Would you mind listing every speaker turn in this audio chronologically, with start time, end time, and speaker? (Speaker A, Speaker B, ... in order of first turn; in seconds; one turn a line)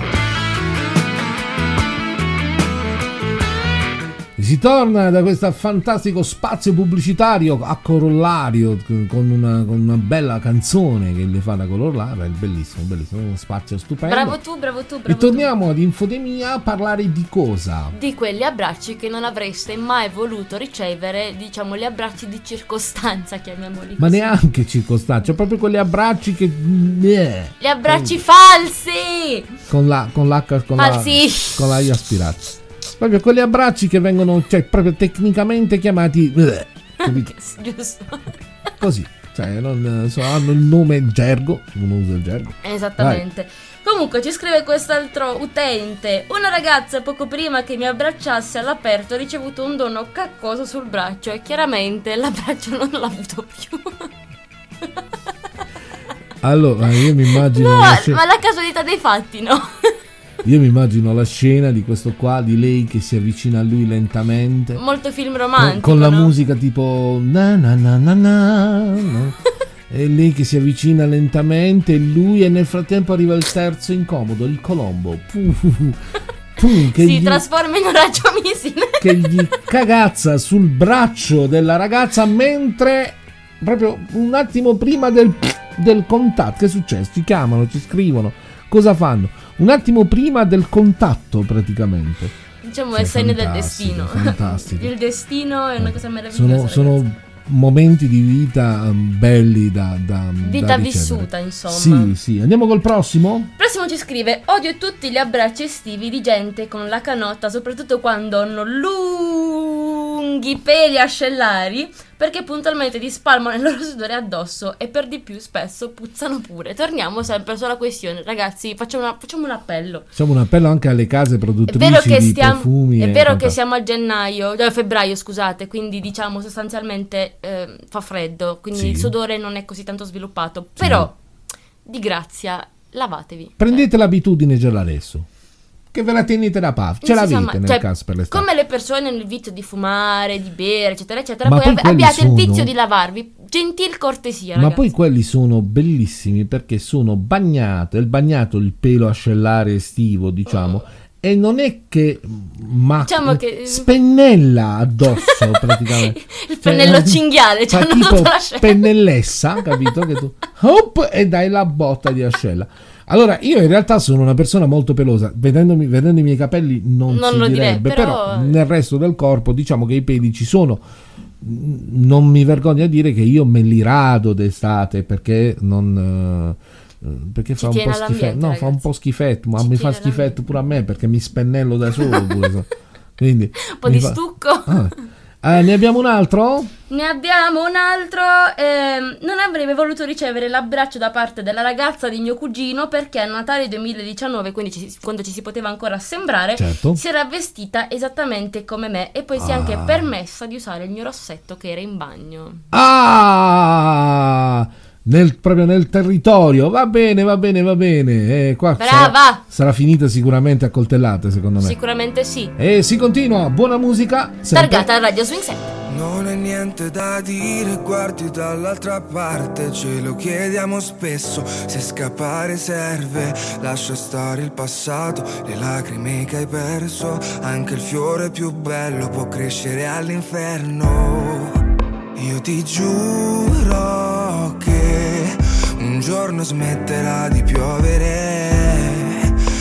Speaker A: 4.4-14.4
Speaker B: 14.1-15.5
Speaker A: 15.1-17.9
Speaker B: 17.9-24.3
Speaker A: 24.0-28.1
Speaker B: 27.6-29.5
Speaker A: 29.7-37.3
Speaker B: 30.8-31.6
Speaker B: 37.0-38.3
Speaker A: 38.8-43.2
Speaker B: 42.6-54.1
Speaker A: 56.4-58.2
Speaker B: 57.0-60.0
Speaker A: 60.4-64.8
Speaker B: 64.8-66.3
Speaker A: 65.6-69.4
Speaker A: 69.9-76.0
Speaker A: 76.6-77.4
Speaker B: 77.0-79.4
Speaker A: 79.0-92.3
Speaker B: 92.6-97.0
Speaker A: 93.0-94.9
Speaker A: 95.8-103.5
Speaker B: 100.4-102.1
Speaker B: 103.6-120.1
Speaker A: 120.2-123.5
Speaker B: 121.7-131.1
Speaker A: 128.7-129.1
Speaker A: 130.8-131.1
Speaker B: 131.9-133.8
Speaker A: 133.6-135.3
Speaker A: 135.9-138.4
Speaker B: 137.0-144.9
Speaker A: 141.4-142.7
Speaker A: 144.6-170.8
Speaker B: 150.5-150.8
Speaker B: 153.0-153.9
Speaker B: 155.2-158.9
Speaker B: 167.1-168.6
Speaker A: 171.4-182.7
Speaker B: 177.6-178.8
Speaker B: 179.6-180.4
Speaker A: 183.2-186.7
Speaker B: 183.7-185.0
Speaker B: 186.9-202.6
Speaker A: 196.6-197.0
Speaker A: 199.4-200.1
Speaker A: 202.7-211.8
Speaker B: 208.8-209.4
Speaker B: 211.6-212.5
Speaker A: 212.6-214.9
Speaker B: 214.5-215.7
Speaker C: 215.9-231.6
Speaker C: 232.2-239.3